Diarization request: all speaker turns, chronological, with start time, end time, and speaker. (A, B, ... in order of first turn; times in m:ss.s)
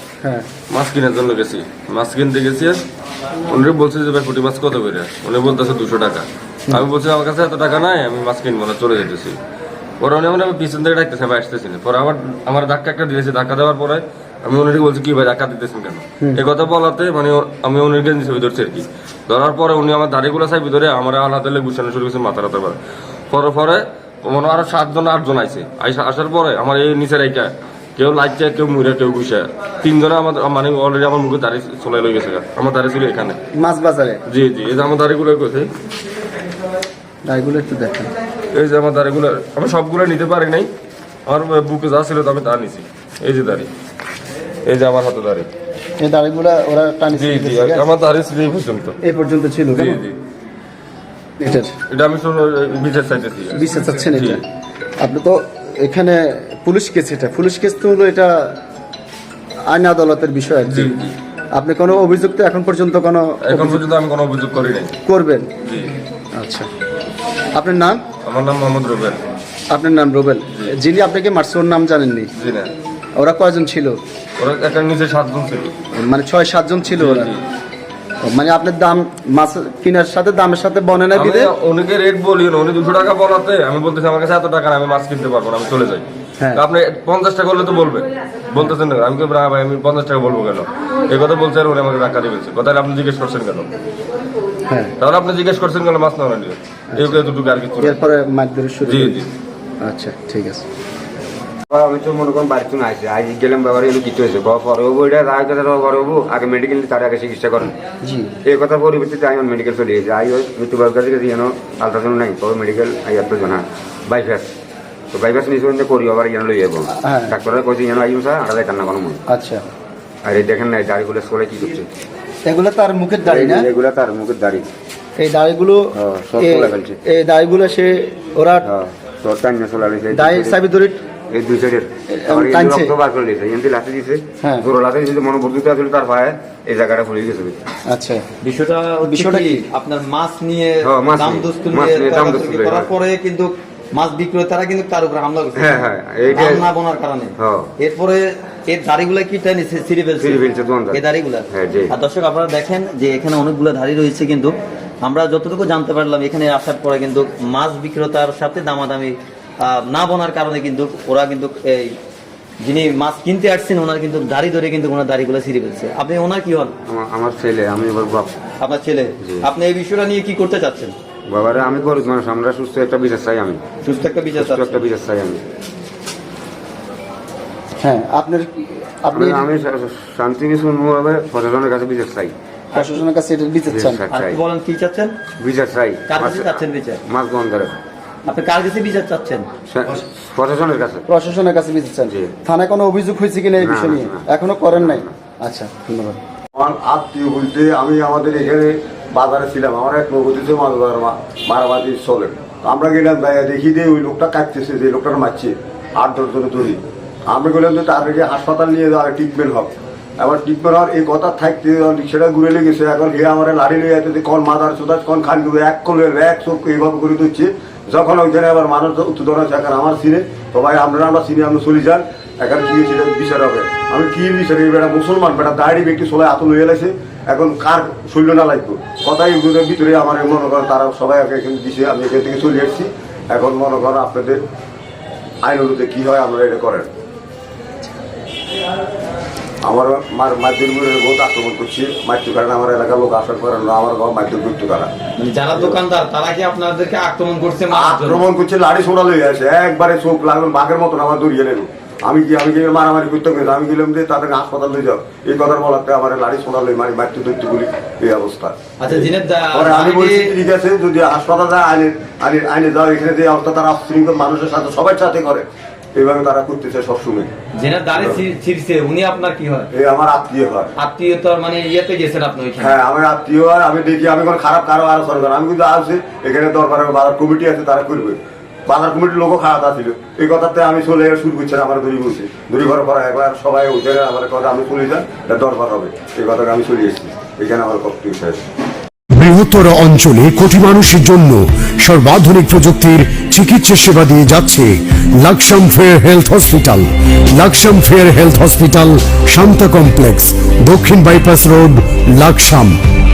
0:00.7-0:02.8 A
0:03.5-0:09.4 A
0:10.0-0:22.8 A
0:23.3-0:33.4 A
0:33.6-0:34.2 B
0:34.3-0:35.7 A
0:37.3-0:38.1 B
0:38.5-0:40.7 A
0:41.3-0:43.7 A
0:44.7-0:45.5 A
0:46.0-0:47.9 B
0:47.1-0:49.0 A
0:49.0-0:50.0 B
0:49.8-0:50.2 A
0:51.4-0:51.7 B
0:51.9-0:54.4 A
0:53.6-0:54.4 B
0:55.0-0:58.6 B
0:59.7-1:00.9 B
1:00.7-1:01.1 A
1:01.6-1:03.8 B
1:03.4-1:05.0 A
1:05.0-1:05.5 B
1:05.6-1:06.0 A
1:06.4-1:06.7 B
1:07.6-1:08.0 B
1:08.2-1:09.2 A
1:09.7-1:12.3 B
1:12.4-1:12.7 A
1:13.2-1:14.0 B
1:14.4-1:15.7 A
1:16.0-1:17.3 B
1:16.9-1:17.4 A
1:18.2-1:21.5 B
1:21.1-1:33.7 A
1:35.0-1:38.0 A
1:36.9-1:37.2 B
1:37.8-1:39.2 B
1:38.8-1:39.3 A
1:39.8-1:40.6 B
1:41.7-1:47.7 C
1:48.0-1:48.3 B
1:48.4-1:54.5 C
1:55.1-1:59.2 C
1:56.9-1:57.4 B
1:59.3-1:59.6 B
2:00.2-2:01.9 C
2:02.5-2:03.7 B
2:03.2-2:04.7 C
2:05.2-2:08.7 B
2:06.0-2:07.0 C
2:08.6-2:10.6 C
2:10.1-2:11.0 B
2:11.3-2:17.6 C
2:12.1-2:13.0 B
2:17.9-2:18.2 B
2:18.4-2:42.0 D
2:19.0-2:19.6 B
2:20.8-2:22.9 C
2:25.6-2:26.7 C
2:27.4-2:27.7 C
2:30.2-2:31.9 C
2:42.6-2:46.7 D
2:46.9-2:48.4 C
2:48.6-2:50.9 D
2:51.3-2:53.8 C
2:53.8-2:54.8 D
2:54.3-2:55.4 C
2:57.8-2:59.5 B
2:59.1-3:02.3 C
3:02.7-3:03.0 D
3:02.8-3:04.0 B
3:03.7-3:04.4 C
3:04.1-3:05.2 D
3:05.4-3:07.8 C
3:06.1-3:07.0 D
3:08.2-3:09.5 D
3:09.7-3:11.1 C
3:11.1-3:16.2 B
3:12.1-3:12.3 C
3:13.6-3:15.1 C
3:16.6-3:54.4 E
3:55.4-3:56.9 E
3:59.6-4:04.9 E
4:05.2-4:08.2 D
4:07.7-4:27.3 E
4:18.8-4:20.4 D
4:27.6-4:29.7 D
4:28.0-4:28.2 E
4:29.7-4:30.7 E
4:30.8-4:32.8 D
4:32.6-4:48.4 E
4:49.1-5:02.8 F